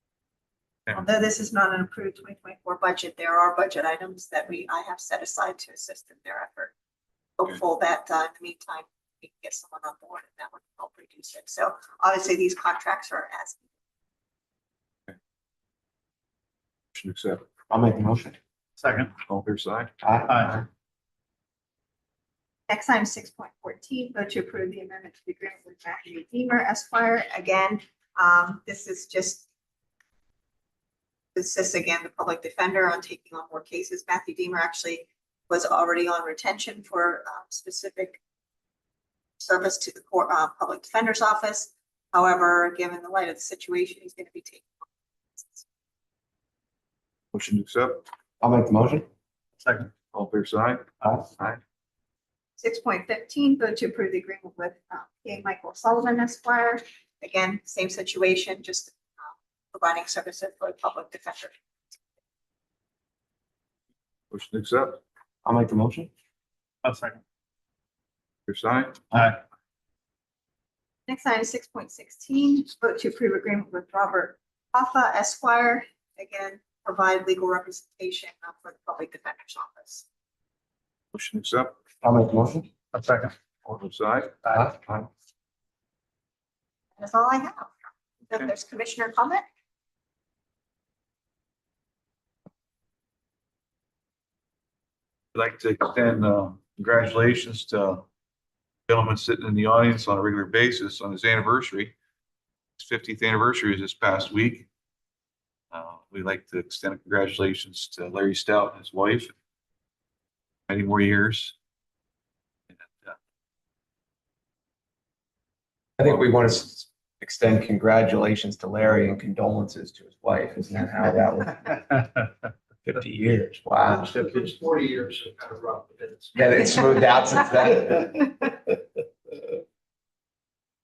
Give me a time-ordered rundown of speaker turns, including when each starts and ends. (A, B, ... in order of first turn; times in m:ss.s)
0:00.9-0:06.7 A
0:07.4-0:13.6 A
0:16.9-0:17.5 B
0:17.7-0:18.4 C
0:18.8-0:19.1 D
0:19.3-0:19.9 B
0:20.0-0:20.7 C
0:20.3-0:20.6 D
0:22.7-0:29.4 A
0:31.3-0:38.2 A
0:39.4-0:44.7 A
0:45.4-0:45.6 A
0:47.3-0:48.0 B
0:48.4-0:49.0 C
0:49.6-0:49.9 D
0:50.1-0:51.6 B
0:52.6-1:01.5 A
1:04.3-1:05.0 B
1:05.4-1:06.1 C
1:06.8-1:07.2 D
1:08.5-1:09.1 B
1:09.1-1:09.4 D
1:11.1-1:20.0 A
1:21.1-1:21.8 B
1:22.0-1:22.7 C
1:22.9-1:23.3 D
1:23.6-1:25.1 B
1:24.5-1:24.8 C
1:27.0-1:27.7 A
1:28.3-1:29.4 A
1:35.3-1:38.0 B
1:38.9-1:41.9 B
1:42.8-1:44.7 B
1:45.7-1:49.3 B
1:50.7-1:51.5 B
1:52.8-1:53.2 B
1:56.0-2:01.8 C
2:02.8-2:04.1 C
2:03.8-2:06.4 E
2:06.3-2:08.5 C